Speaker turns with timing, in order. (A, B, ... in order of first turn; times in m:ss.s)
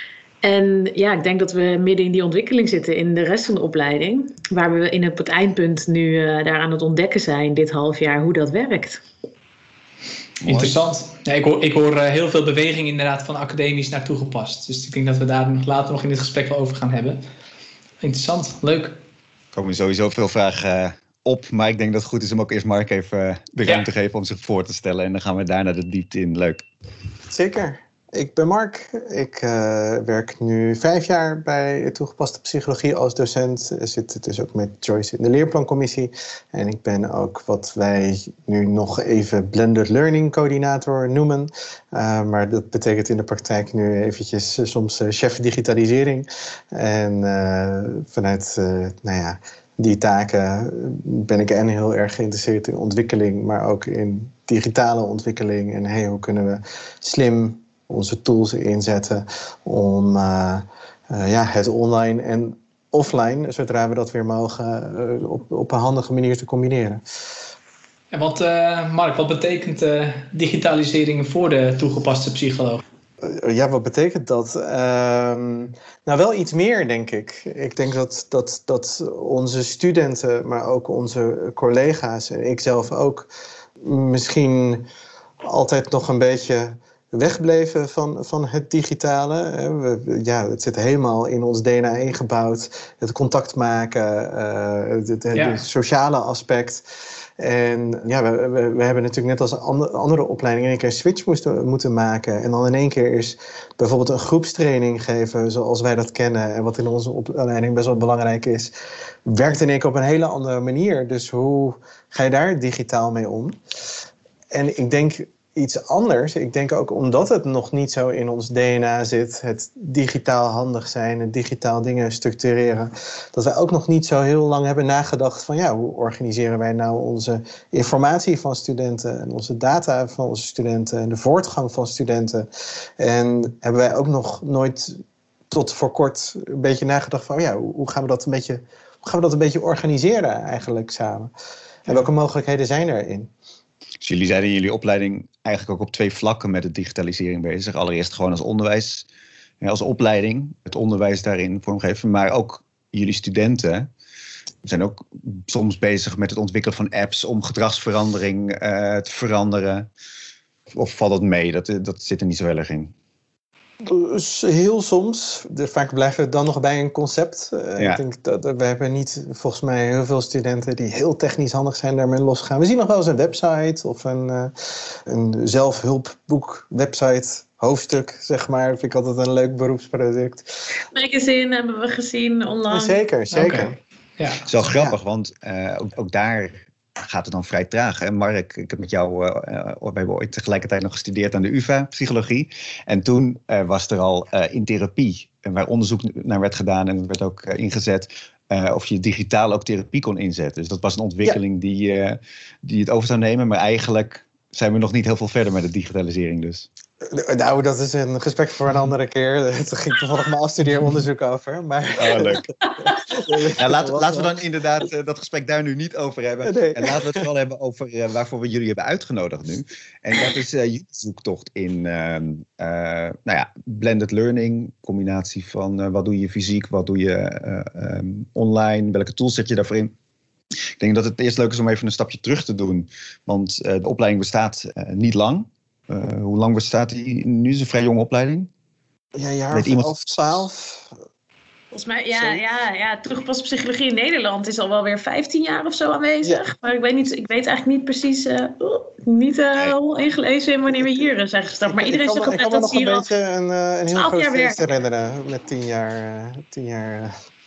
0:00.4-0:09.0 A
0:10.4-0:10.8 B
0:10.5-0:17.2 C
0:18.0-0:19.0 C
0:19.5-0:26.6 B
0:27.3-1:07.0 D
1:08.1-1:12.8 C
1:13.2-1:23.3 D
1:23.8-1:24.9 D
1:25.4-1:36.8 D
1:35.3-1:35.6 C
1:37.4-1:48.7 D
1:49.3-1:53.6 D
1:54.5-2:12.5 D
2:13.0-2:21.3 D
2:21.9-2:23.3 D
2:24.0-2:29.1 B
2:29.6-2:33.9 B
2:34.6-2:39.9 B
2:40.7-2:42.9 B
2:43.8-3:00.5 D
3:00.9-3:03.0 A
3:02.7-3:03.8 D
3:03.3-3:04.4 C
3:04.4-3:26.7 B
3:04.6-3:05.0 D
3:27.1-3:34.4 D
3:32.0-3:32.5 B
3:33.2-3:49.9 B
3:36.4-3:37.2 D
3:50.8-3:58.5 B
3:59.2-4:00.9 D
3:59.5-4:00.4 B
4:01.7-4:13.1 A
4:02.2-4:02.4 D
4:11.7-4:17.2 D
4:13.9-4:14.6 A